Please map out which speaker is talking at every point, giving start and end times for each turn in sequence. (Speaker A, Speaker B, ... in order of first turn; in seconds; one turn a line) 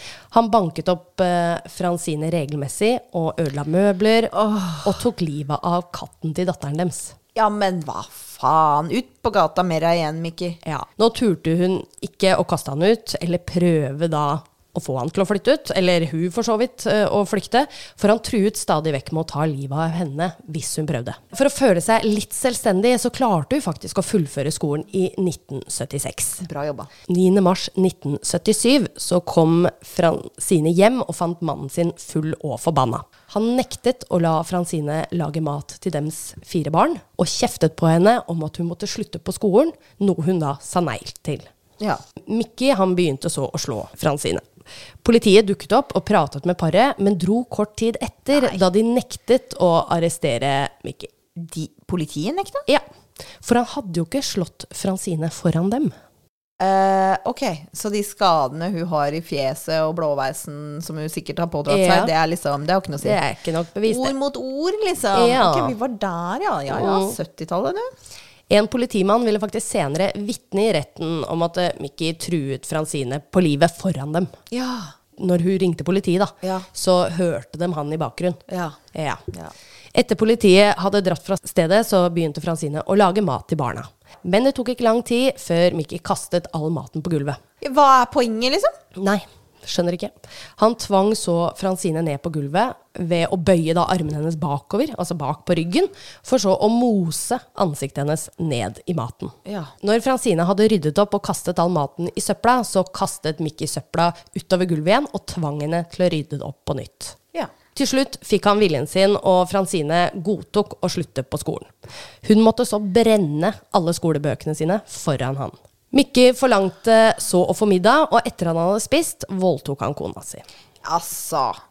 Speaker A: 0.3-7.2
Speaker B: 4.4-4.8
Speaker B: 7.3-10.6
Speaker A: 10.7-26.4
Speaker B: 26.4-26.9
Speaker A: 27.1-41.5
Speaker A: 42.3-44.4
Speaker A: 45.0-51.1
Speaker B: 48.3-48.6
Speaker B: 51.4-52.7
Speaker A: 53.4-55.9
Speaker B: 56.6-63.2
Speaker A: 61.7-62.1
Speaker A: 63.0-64.1
Speaker B: 63.8-67.9
Speaker A: 65.1-65.8
Speaker A: 66.7-67.2
Speaker A: 68.5-74.3
Speaker B: 74.5-74.9
Speaker A: 75.2-78.4
Speaker B: 78.5-78.8
Speaker A: 78.9-79.2
Speaker A: 79.9-87.4
Speaker B: 87.6-88.7
Speaker A: 89.0-107.2
Speaker B: 99.5-99.7
Speaker A: 107.7-111.7
Speaker A: 112.2-120.5
Speaker B: 120.8-121.6